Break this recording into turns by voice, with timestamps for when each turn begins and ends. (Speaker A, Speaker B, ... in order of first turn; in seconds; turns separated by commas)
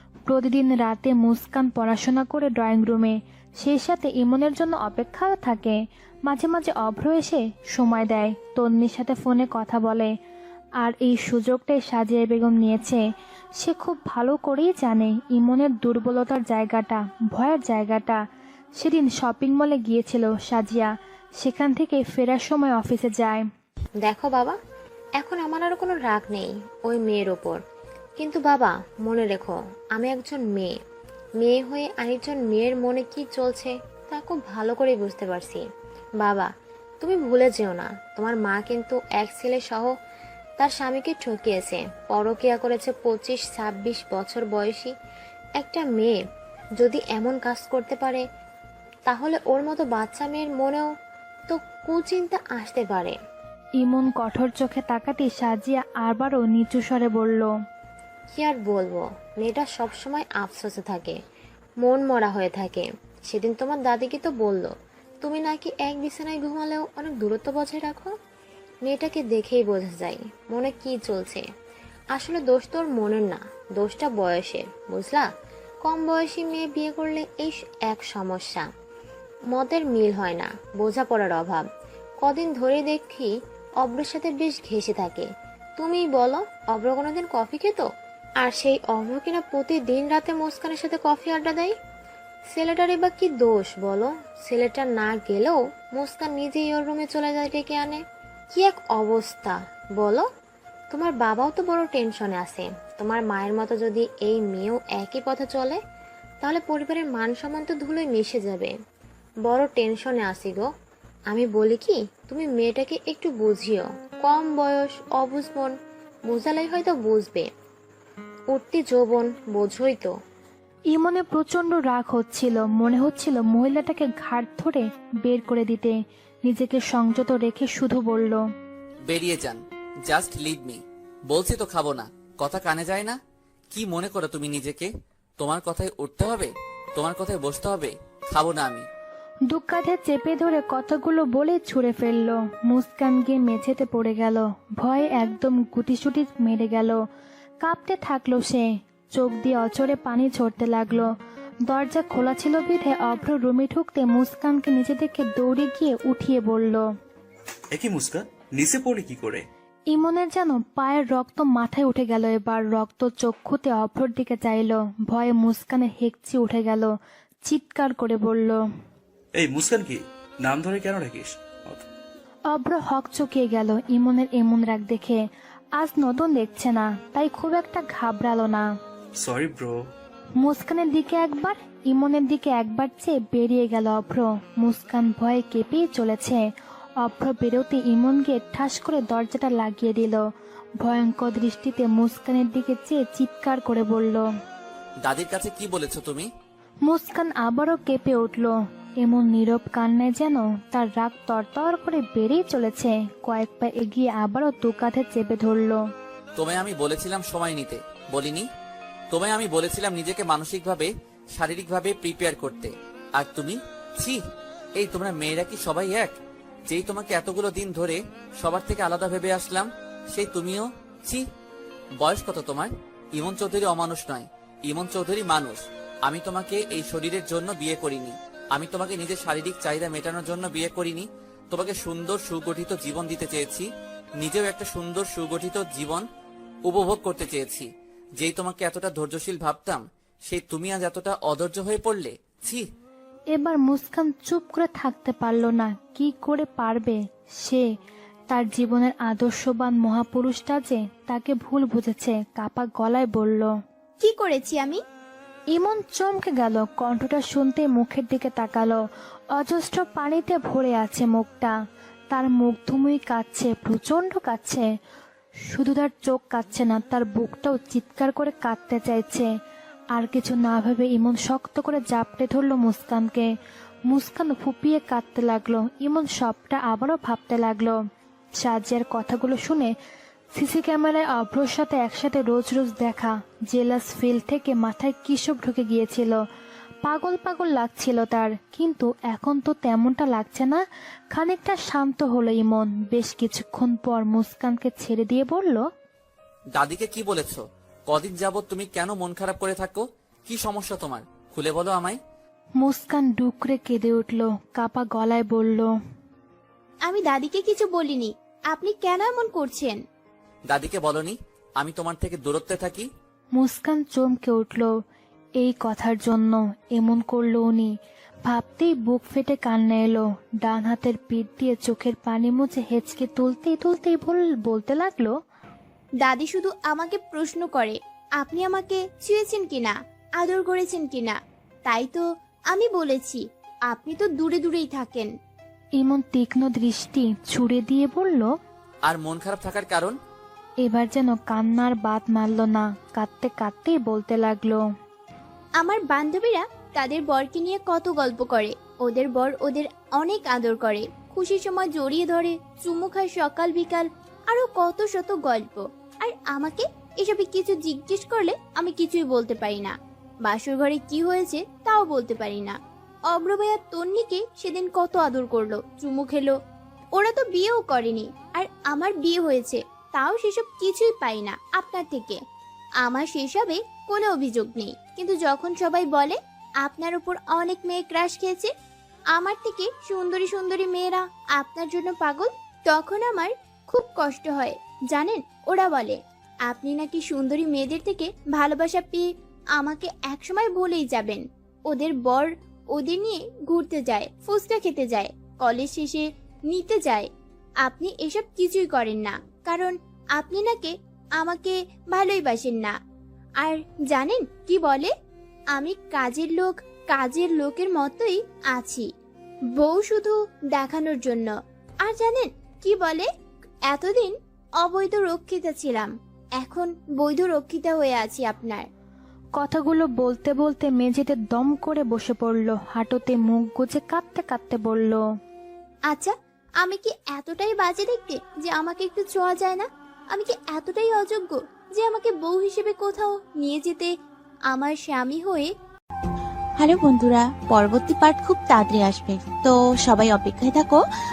Speaker A: 0.3-10.1, Speaker A: 10.8-13.0, Speaker A: 13.6-18.2, Speaker A: 18.8-23.4, Speaker B: 24.0-24.6, Speaker B: 25.2-27.6, Speaker B: 28.2-30.7, Speaker B: 31.4-35.6, Speaker B: 36.2-36.5, Speaker B: 37.0-39.9, Speaker B: 40.6-44.9, Speaker B: 45.6-46.2, Speaker B: 46.8-48.2, Speaker B: 49.1-50.9, Speaker B: 51.5-53.1, Speaker A: 53.8-57.5, Speaker B: 58.3-61.2, Speaker B: 61.8-68.1, Speaker B: 68.8-71.4, Speaker B: 72.1-75.3, Speaker B: 75.8-78.7, Speaker B: 79.5-81.7, Speaker B: 82.2-85.2, Speaker B: 85.8-87.8, Speaker B: 88.4-91.7, Speaker B: 92.5-98.0, Speaker B: 98.5-100.2, Speaker B: 100.9-105.8, Speaker B: 106.4-108.7, Speaker B: 109.4-110.7, Speaker B: 111.3-115.7, Speaker B: 116.3-117.5, Speaker B: 118.5-120.1, Speaker A: 120.9-128.4, Speaker C: 129.1-133.2, Speaker C: 133.7-138.9, Speaker A: 139.5-147.0, Speaker A: 147.6-151.1, Speaker A: 151.7-156.9, Speaker D: 157.7-159.4, Speaker A: 159.9-166.9, Speaker A: 167.4-168.6, Speaker D: 169.4-171.8, Speaker A: 172.5-175.2, Speaker A: 175.8-178.7, Speaker D: 179.2-179.8, Speaker A: 180.4-190.2, Speaker A: 190.8-194.3, Speaker C: 195.0-196.3, Speaker A: 196.8-205.8, Speaker C: 206.3-208.5, Speaker C: 209.1-214.2, Speaker C: 214.8-216.1, Speaker C: 216.7-221.2, Speaker C: 222.0-233.7, Speaker C: 234.2-236.0, Speaker C: 236.6-242.6, Speaker A: 243.3-247.7, Speaker A: 248.3-253.5, Speaker E: 254.0-254.8, Speaker A: 255.5-258.8, Speaker A: 259.3-261.5, Speaker A: 262.1-264.7, Speaker A: 265.5-269.3, Speaker A: 269.9-273.3, Speaker A: 273.9-277.8, Speaker A: 278.4-279.7, Speaker A: 280.3-286.2, Speaker A: 286.8-290.6, Speaker A: 291.1-295.6, Speaker C: 296.5-302.0, Speaker A: 302.6-305.7, Speaker E: 306.9-309.8, Speaker C: 310.5-312.9, Speaker A: 313.4-314.7, Speaker A: 315.4-317.7, Speaker A: 318.2-325.1, Speaker E: 326.0-331.1, Speaker E: 331.6-335.1, Speaker A: 335.8-338.3, Speaker C: 338.9-340.0, Speaker A: 340.6-344.6, Speaker E: 345.6-359.7, Speaker E: 360.2-362.5, Speaker E: 363.1-366.3, Speaker E: 366.9-372.2, Speaker E: 372.8-378.5, Speaker E: 379.1-397.1, Speaker E: 397.6-402.7, Speaker E: 403.4-404.9, Speaker E: 405.5-408.9, Speaker E: 409.6-411.3, Speaker E: 411.8-413.1, Speaker E: 413.7-418.6, Speaker A: 419.4-425.0, Speaker E: 425.9-433.9, Speaker E: 434.5-435.5, Speaker F: 436.6-440.8